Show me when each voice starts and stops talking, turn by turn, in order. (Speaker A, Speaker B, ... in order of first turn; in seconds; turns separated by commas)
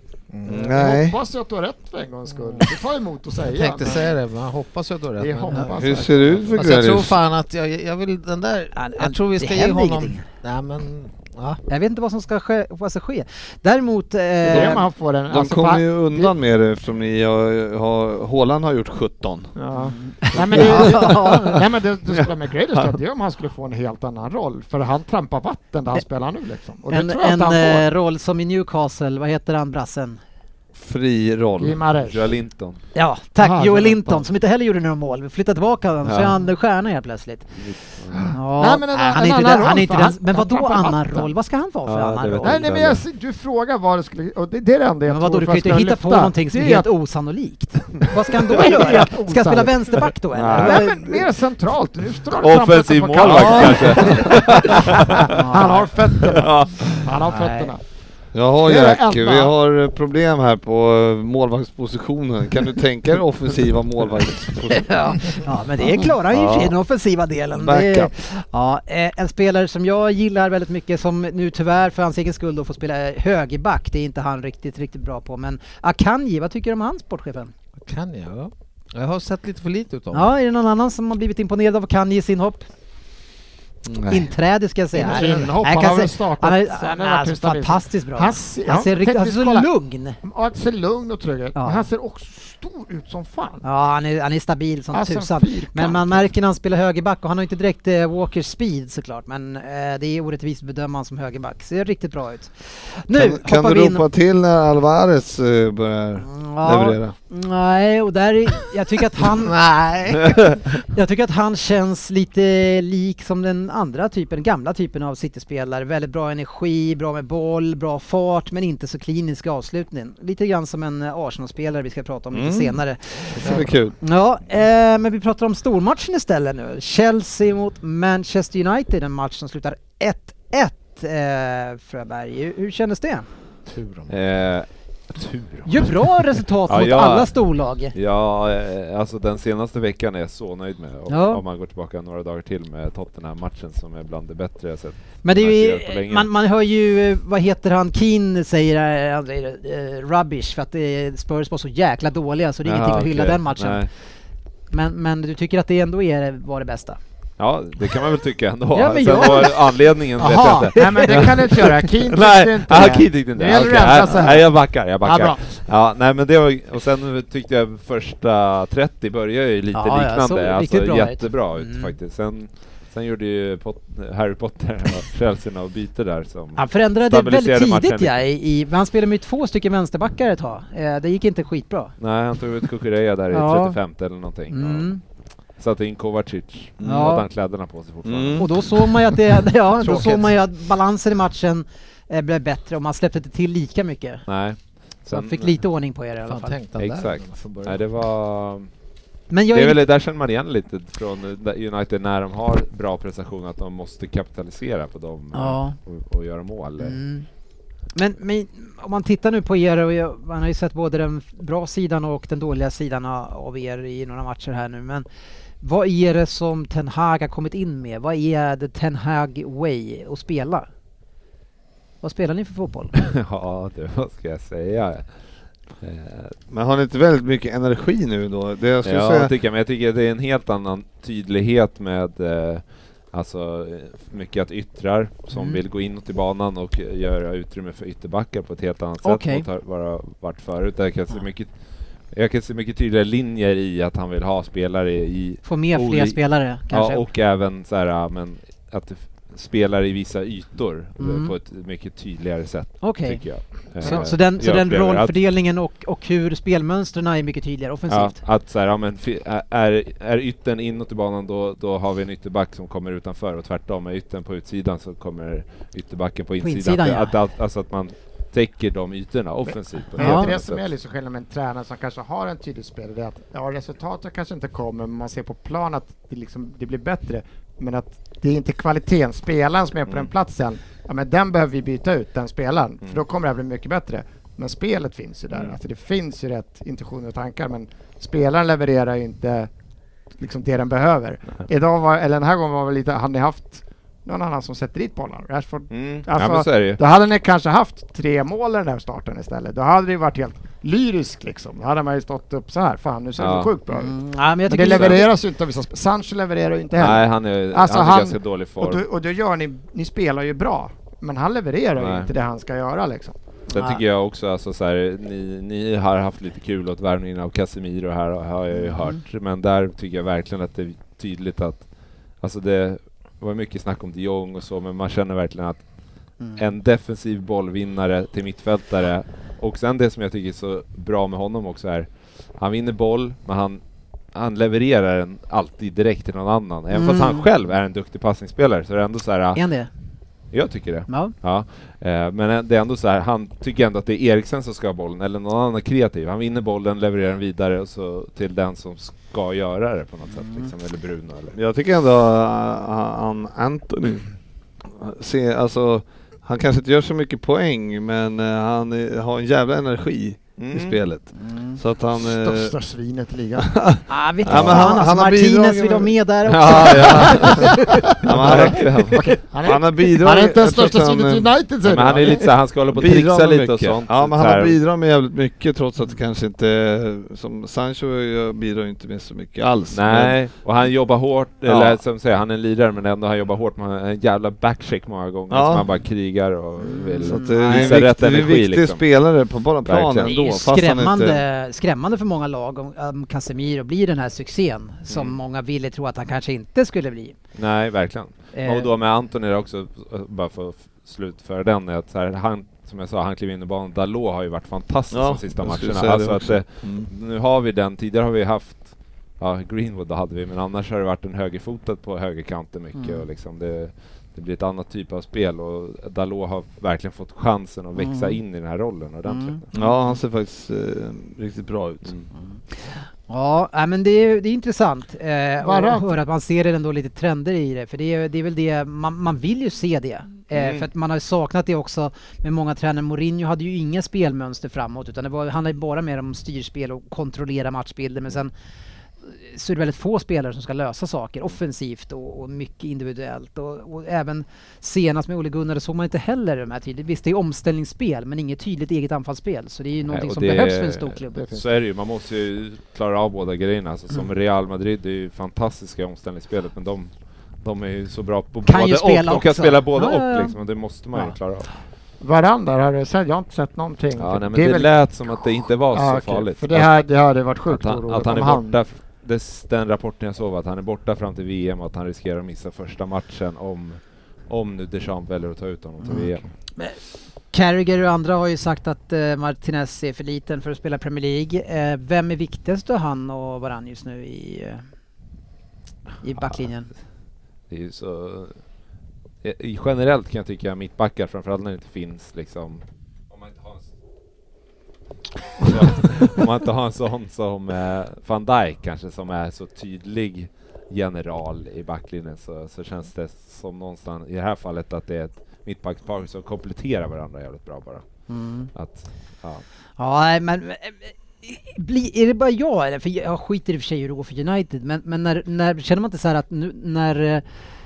Speaker A: 0.3-0.7, Speaker B: 0.5-1.2, Speaker C: 0.5-4.1, Speaker A: 3.5-11.6, Speaker C: 5.2-6.5, Speaker B: 5.8-7.2, Speaker D: 8.8-10.2, Speaker D: 11.7-14.8, Speaker C: 14.5-16.3, Speaker B: 14.5-14.8, Speaker B: 15.3-19.6, Speaker C: 19.6-27.9, Speaker D: 19.8-21.6, Speaker B: 20.5-21.1, Speaker D: 26.9-30.2, Speaker B: 30.8-31.8, Speaker C: 31.6-32.3, Speaker E: 32.0-32.8, Speaker D: 33.0-37.6, Speaker C: 33.4-34.2, Speaker E: 36.0-36.4, Speaker E: 37.6-38.3, Speaker C: 38.1-41.3, Speaker D: 38.3-42.6, Speaker E: 41.9-43.0, Speaker C: 42.4-46.9, Speaker D: 45.1-51.2, Speaker C: 48.3-57.8, Speaker B: 50.3-50.9, Speaker E: 52.4-55.3, Speaker B: 53.2-53.6, Speaker D: 55.2-55.9, Speaker E: 56.2-57.1, Speaker D: 57.3-57.7, Speaker B: 58.3-66.8, Speaker C: 58.6-59.5, Speaker D: 64.7-77.5, Speaker B: 67.6-68.1, Speaker A: 77.8-80.3, Speaker D: 80.1-82.6, Speaker B: 83.9-84.3, Speaker D: 84.1-90.2, Speaker C: 84.9-89.7, Speaker C: 90.2-93.6, Speaker D: 91.6-91.9, Speaker D: 93.6-104.1, Speaker C: 94.9-96.2, Speaker B: 103.1-107.2, Speaker D: 106.2-109.5, Speaker A: 109.4-110.5, Speaker D: 110.9-133.3, Speaker B: 122.3-122.8, Speaker B: 123.4-124.0, Speaker A: 133.7-134.2, Speaker E: 134.1-136.1, Speaker D: 135.7-137.9, Speaker E: 136.7-137.3, Speaker E: 137.9-146.3, Speaker D: 141.1-141.4, Speaker D: 145.2-153.9, Speaker E: 152.7-153.9, Speaker D: 154.7-157.0, Speaker E: 157.4-178.1, Speaker D: 158.7-161.3, Speaker C: 160.7-165.4, Speaker D: 169.7-171.9, Speaker D: 176.6-181.9, Speaker E: 182.0-184.9, Speaker D: 183.3-183.8, Speaker D: 184.5-185.0, Speaker E: 185.6-188.5, Speaker B: 186.8-187.1, Speaker D: 186.8-187.3, Speaker B: 188.1-188.5, Speaker D: 188.4-194.2, Speaker A: 189.9-190.3, Speaker E: 194.3-195.6, Speaker D: 195.1-196.6, Speaker A: 196.2-197.8, Speaker E: 196.8-198.7, Speaker D: 199.3-199.8, Speaker E: 199.5-207.0, Speaker D: 205.3-205.8, Speaker D: 206.8-207.3, Speaker D: 207.9-215.1, Speaker D: 215.6-220.7, Speaker D: 222.0-222.9, Speaker E: 222.9-225.1, Speaker E: 225.8-226.3, Speaker B: 226.5-229.3, Speaker E: 228.8-241.5, Speaker D: 235.3-235.6, Speaker D: 239.0-239.5, Speaker E: 242.1-255.2, Speaker D: 245.4-247.0, Speaker D: 251.0-251.3, Speaker D: 252.8-258.2, Speaker E: 257.9-270.6, Speaker D: 266.4-267.1, Speaker C: 269.9-289.5, Speaker D: 270.0-270.3, Speaker C: 290.2-313.2, Speaker E: 295.7-296.8, Speaker E: 303.2-303.5, Speaker D: 303.7-305.0, Speaker E: 304.6-305.0, Speaker E: 306.8-308.9, Speaker E: 311.8-312.1, Speaker E: 313.5-321.7, Speaker D: 313.5-313.8, Speaker D: 318.6-319.0, Speaker E: 322.2-325.6, Speaker E: 326.4-333.6, Speaker E: 334.1-339.4, Speaker D: 336.7-337.3, Speaker D: 339.4-339.7, Speaker E: 340.3-351.4, Speaker D: 340.9-341.1, Speaker D: 350.1-350.5, Speaker B: 351.4-354.1, Speaker B: 354.6-362.5, Speaker E: 360.4-360.8, Speaker D: 361.2-361.6, Speaker C: 362.0-363.5, Speaker B: 363.4-365.9, Speaker D: 363.9-367.9, Speaker E: 364.3-364.6, Speaker E: 366.3-369.1, Speaker B: 368.0-368.7, Speaker C: 368.2-372.3, Speaker B: 369.4-371.3, Speaker E: 371.6-374.6, Speaker B: 372.7-380.2, Speaker E: 379.7-388.9, Speaker B: 381.5-381.8, Speaker B: 385.3-385.7, Speaker D: 386.6-387.8, Speaker B: 387.0-391.2, Speaker E: 389.6-390.2, Speaker D: 390.1-397.1, Speaker E: 394.9-395.2, Speaker E: 397.4-419.6, Speaker D: 398.4-398.7, Speaker B: 404.9-406.9, Speaker D: 412.8-413.0, Speaker D: 417.8-418.2, Speaker D: 419.1-419.4, Speaker B: 419.5-421.9, Speaker D: 422.6-438.3, Speaker C: 425.4-425.9, Speaker E: 430.4-430.6, Speaker D: 439.2-451.2, Speaker E: 449.9-456.9, Speaker C: 451.1-451.4, Speaker E: 457.4-461.5, Speaker D: 458.5-460.3, Speaker C: 462.0-468.5, Speaker E: 464.0-466.7, Speaker E: 467.5-476.2, Speaker D: 475.9-476.8, Speaker C: 475.9-476.1, Speaker D: 477.3-484.6, Speaker D: 486.0-486.7, Speaker E: 487.5-488.4, Speaker E: 489.2-493.6, Speaker E: 495.4-507.9, Speaker D: 508.1-508.5, Speaker E: 508.5-509.4, Speaker D: 509.8-517.2